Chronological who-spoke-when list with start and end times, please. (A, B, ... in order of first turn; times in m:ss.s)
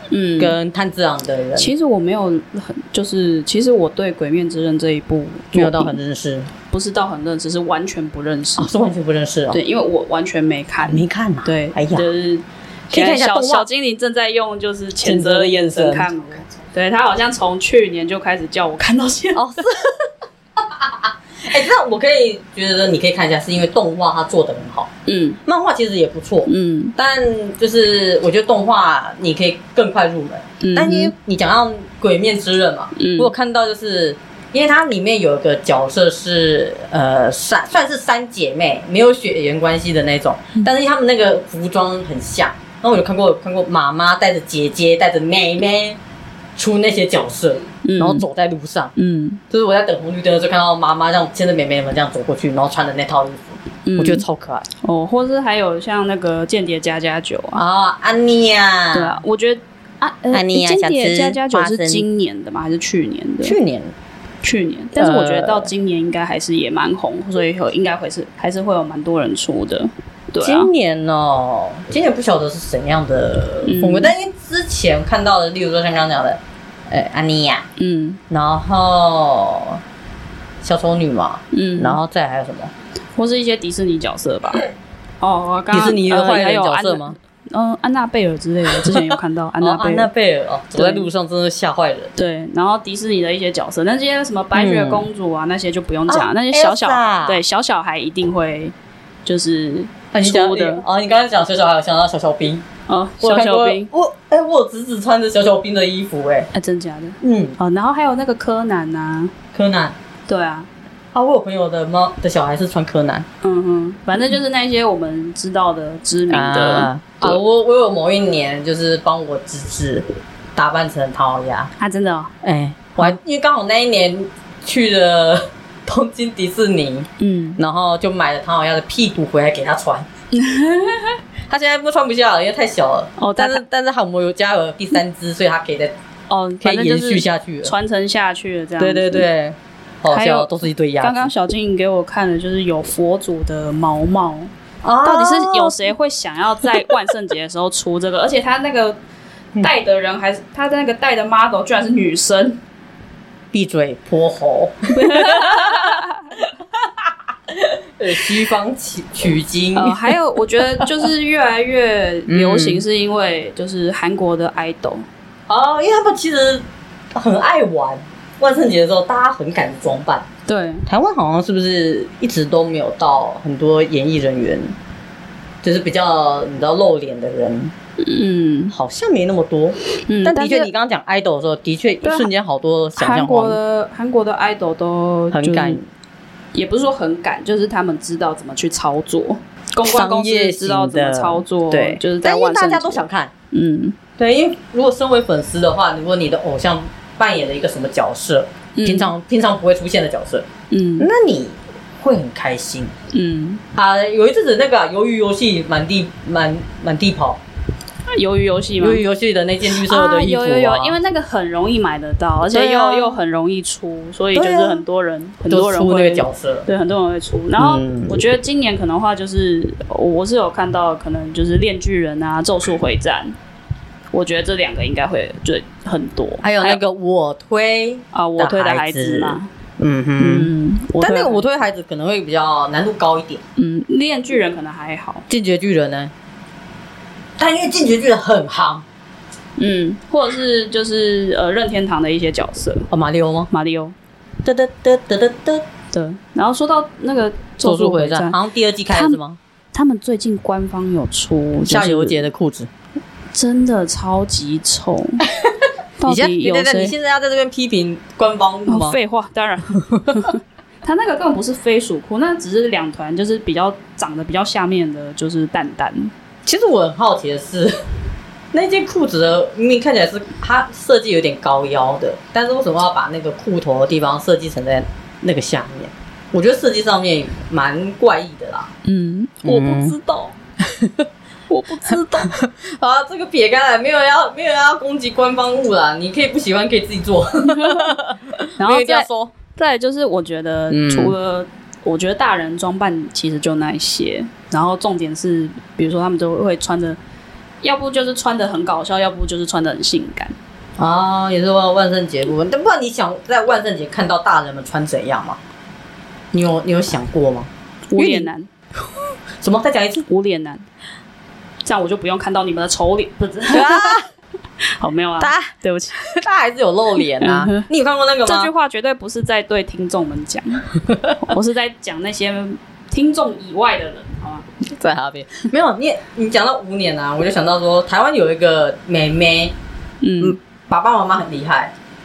0:00.1-0:00.6 A
0:00.4-0:01.7 B
0:01.6-0:06.0 A
0:05.6-0:06.5 B
0:06.7-0:08.7 A
0:08.6-0:09.6 B
0:09.5-0:19.6 A
0:10.8-0:12.1 B
0:12.9-0:13.7 B
0:15.0-0:16.1 B
0:19.4-0:20.0 B
0:20.6-0:24.9 B
0:25.1-0:25.4 A
0:25.4-0:46.0 B
0:26.5-0:27.0 A
0:30.6-0:31.1 A
0:33.0-0:33.3 A
0:46.6-0:48.9 B
0:47.8-0:48.3 A
0:49.0-0:49.4 A
0:49.5-0:54.7 B
0:53.9-0:54.2 A
0:54.8-0:57.6 A
0:57.6-0:59.2 B
0:58.9-1:03.6 A
1:00.3-1:02.0 B
1:03.4-1:03.9 B
1:04.4-1:10.7 A
1:05.0-1:05.7 B
1:10.4-1:17.7 B
1:13.6-1:14.1 A
1:17.8-1:18.2 A
1:18.3-1:19.8 B
1:20.6-1:22.7 B
1:21.5-1:22.0 A
1:23.2-1:24.7 A
1:25.2-1:30.1 A
1:25.7-1:27.2 B
1:28.7-1:32.1 B
1:30.8-1:31.1 A
1:32.2-1:38.7 A
1:34.6-1:35.1 B
1:36.1-1:37.4 B
1:39.2-1:40.8 A
1:40.1-1:42.7 B
1:42.9-1:43.9 A
1:43.2-1:46.5 B
1:46.5-1:49.4 A
1:47.2-1:47.6 B
1:49.5-1:50.0 B
1:50.3-1:50.7 A
1:51.1-1:53.3 B
1:53.4-1:57.4 A
1:56.3-2:01.7 B
2:01.8-2:02.3 A
2:02.4-2:10.1 B
2:07.2-2:07.6 A
2:10.3-2:11.2 A
2:11.5-2:16.0 B
2:13.2-2:13.6 A
2:16.3-2:19.3 A
2:16.6-2:17.7 B
2:18.8-2:21.3 B
2:20.1-2:24.5 A
2:24.8-2:25.9 B
2:25.0-2:29.0 A
2:26.6-2:26.9 B
2:29.6-2:32.6 A
2:33.5-2:36.0 B
2:34.9-2:36.2 A
2:36.8-2:41.1 B
2:39.8-2:45.1 A
2:42.3-2:42.8 B
2:45.5-2:50.3 B
2:50.5-2:50.9 A
2:50.9-2:54.8 B
2:55.6-2:57.7 B
2:58.0-2:58.8 A
2:58.7-3:03.6 B
3:00.1-3:00.7 A
3:02.0-3:02.3 A
3:03.0-3:05.8 A
3:05.3-3:05.8 B
3:06.5-3:14.0 A
3:09.8-3:13.3 B
3:14.2-3:20.5 B
3:18.8-3:19.1 A
3:20.7-3:21.1 A
3:21.0-3:22.9 B
3:23.1-3:23.6 A
3:23.8-3:27.4 B
3:28.1-3:29.0 A
3:28.8-3:31.0 B
3:29.7-3:43.4 A
3:32.5-3:33.2 B
3:34.3-3:34.8 B
3:35.5-3:36.7 B
3:37.6-3:38.2 B
3:44.1-3:46.8 A
3:46.4-3:53.4 B
3:48.1-3:49.5 A
3:50.2-3:51.4 A
3:53.6-3:55.3 A
3:55.3-3:56.1 B
3:57.4-3:58.8 B
3:59.6-4:02.9 A
4:02.9-4:03.5 B
4:03.5-4:04.0 A
4:04.4-4:05.6 B
4:05.9-4:08.4 A
4:07.6-4:09.4 B
4:08.9-4:09.2 A
4:09.7-4:12.3 A
4:11.6-4:12.7 B
4:13.3-4:15.3 A
4:15.3-4:19.0 B
4:16.0-4:17.0 A
4:18.7-4:26.1 A
4:19.9-4:20.3 B
4:26.4-4:27.8 B
4:28.5-4:38.7 B
4:38.8-4:40.4 A
4:39.4-4:40.0 B
4:40.6-4:41.1 B
4:41.5-4:42.3 A
4:41.9-4:49.4 B
4:47.4-4:48.0 A
4:48.6-4:57.0 A
4:50.7-4:51.2 B
4:57.6-5:00.4 A
5:00.8-5:05.4 B
5:06.3-5:08.3 B
5:07.9-5:08.5 A
5:09.4-5:10.1 B
5:10.1-5:10.7 A
5:11.6-5:14.0 A
5:13.5-5:14.1 B
5:14.8-5:16.0 A
5:15.2-5:18.5 B
5:17.2-5:17.7 A
5:18.2-5:24.5 A
5:20.9-5:21.2 B
5:24.6-5:29.6 B
5:30.0-5:30.4 A
5:30.2-5:31.7 B